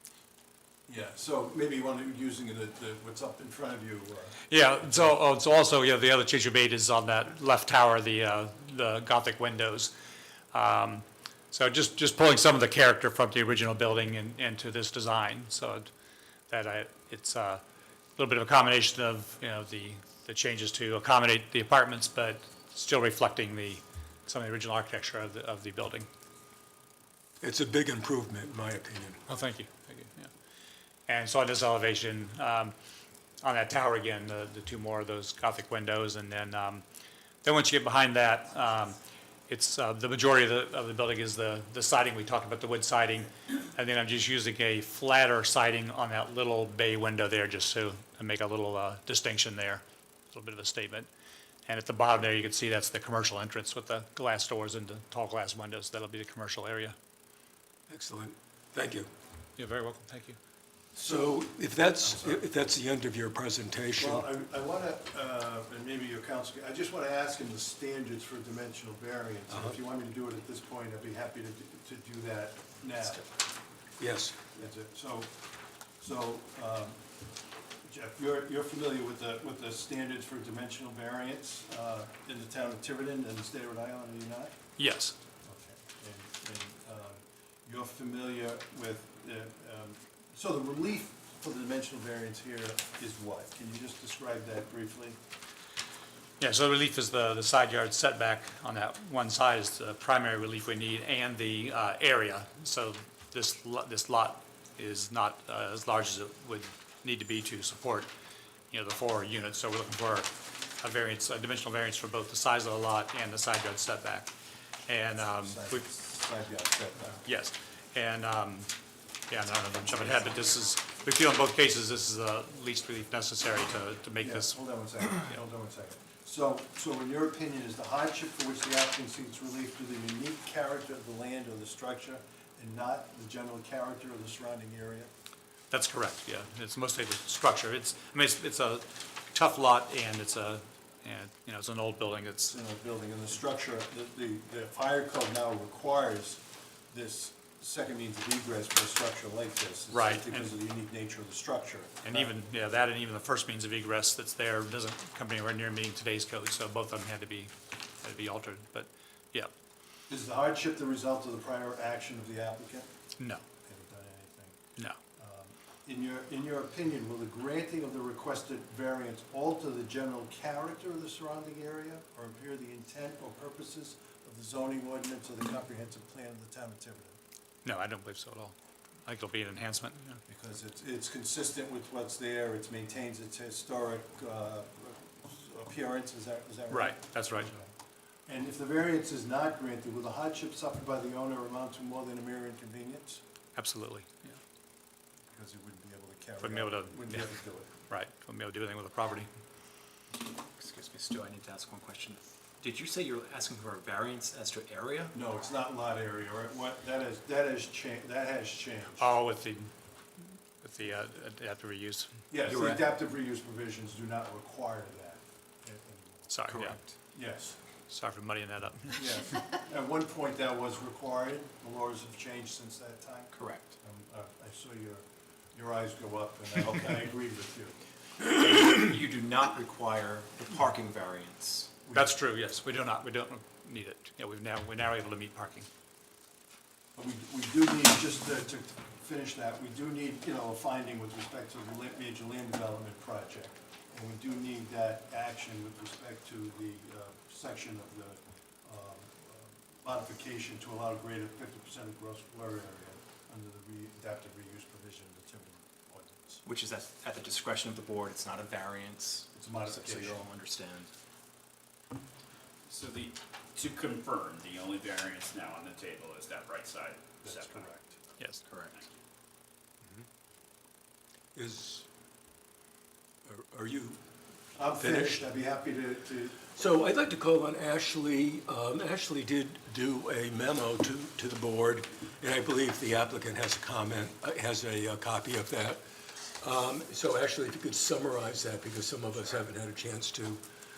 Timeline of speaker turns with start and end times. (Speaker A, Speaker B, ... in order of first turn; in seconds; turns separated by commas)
Speaker A: 0.9-4.4, Speaker B: 4.5-9.9, Speaker B: 10.5-15.9, Speaker B: 16.5-17.6, Speaker B: 18.2-26.1, Speaker C: 27.4-29.2, Speaker B: 29.3-30.3, Speaker B: 31.1-32.7, Speaker B: 33.4-36.8, Speaker B: 37.4-39.0, Speaker B: 39.5-51.1, Speaker B: 51.7-57.0, Speaker C: 57.9-59.1, Speaker B: 59.6-60.4, Speaker C: 61.0-64.2, Speaker A: 61.0-61.4, Speaker A: 62.0-62.4, Speaker A: 64.0-73.3, Speaker C: 69.5-69.8, Speaker C: 74.0-74.4, Speaker A: 74.5-75.3, Speaker A: 76.0-77.0, Speaker A: 77.8-84.5, Speaker B: 84.8-85.2, Speaker A: 85.5-95.2, Speaker B: 96.4-108.1, Speaker B: 108.7-114.3, Speaker B: 114.9-115.9, Speaker A: 115.4-117.2, Speaker B: 117.2-118.7, Speaker B: 119.3-124.5, Speaker A: 124.2-135.1, Speaker B: 135.7-142.6, Speaker A: 142.5-152.3, Speaker B: 149.9-150.5, Speaker B: 152.0-159.5, Speaker A: 160.1-162.9, Speaker A: 163.6-164.6, Speaker A: 165.2-177.2, Speaker B: 177.7-178.6, Speaker B: 179.1-180.2, Speaker A: 180.3-187.7, Speaker B: 186.7-187.5, Speaker A: 188.3-193.2, Speaker B: 193.6-194.4, Speaker A: 195.3-197.7, Speaker B: 196.4-197.3, Speaker B: 197.9-199.3, Speaker D: 200.6-205.2, Speaker A: 205.1-209.2, Speaker B: 209.0-212.2, Speaker A: 212.3-216.5, Speaker D: 212.5-212.9, Speaker B: 216.3-216.8, Speaker D: 216.5-216.9, Speaker A: 217.1-217.6, Speaker B: 217.9-219.1, Speaker A: 219.0-227.8, Speaker D: 223.3-223.7, Speaker D: 228.2-231.7, Speaker B: 231.9-235.7, Speaker A: 237.0-256.4, Speaker D: 256.4-260.9, Speaker A: 259.3-260.3, Speaker E: 262.7-267.7, Speaker A: 267.2-267.9, Speaker D: 268.5-268.8, Speaker C: 271.4-271.9, Speaker C: 273.3-274.0, Speaker A: 274.6-276.4, Speaker C: 274.8-275.3, Speaker C: 276.6-290.4